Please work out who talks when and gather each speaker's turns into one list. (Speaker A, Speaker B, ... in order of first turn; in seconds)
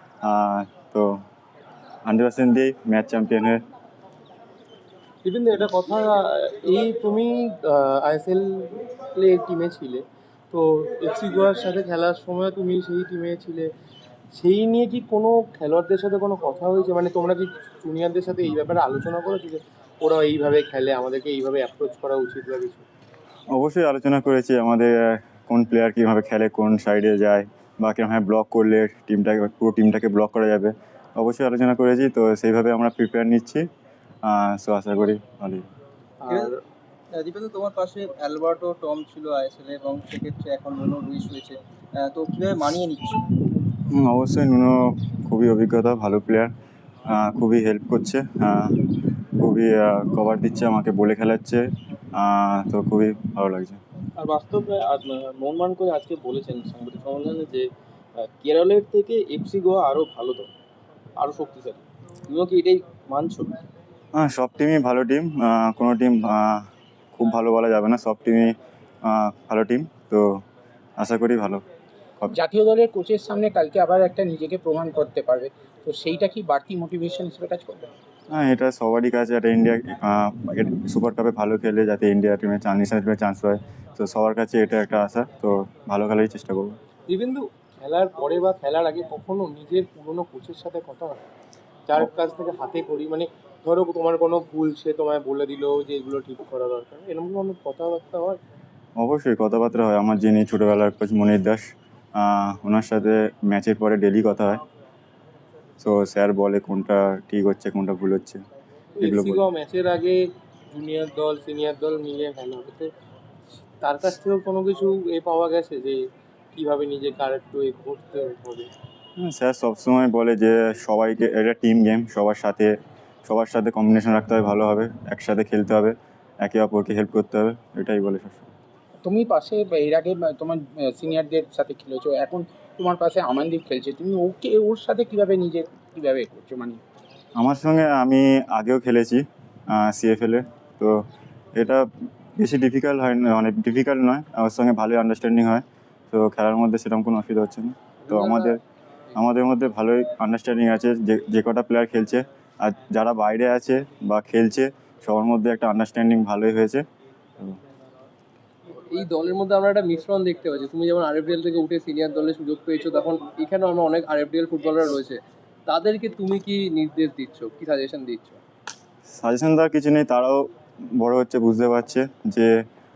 Speaker A: 0.2-1.2, 2.0-3.6, 23.5-33.6, 34.2-35.7, 43.9-46.5, 47.0-48.8, 49.4-51.6, 52.1-53.8, 64.1-70.4, 71.0-71.6, 78.3-86.8, 99.0-104.6, 105.8-108.4, 109.0-109.4, 119.2-122.7, 123.3-128.5, 137.4-141.0, 141.6-148.6, 149.1-156.8, 169.1-172.6
Speaker B: 5.2-13.7, 14.3-22.8, 36.2-36.6, 87.1-91.2, 91.9-98.4, 109.0-112.9, 113.8-116.0, 116.5-118.7
Speaker C: 37.1-43.2
Speaker D: 54.2-60.5, 61.2-63.6
Speaker E: 72.3-77.9, 129.0-136.8
Speaker F: 158.9-168.4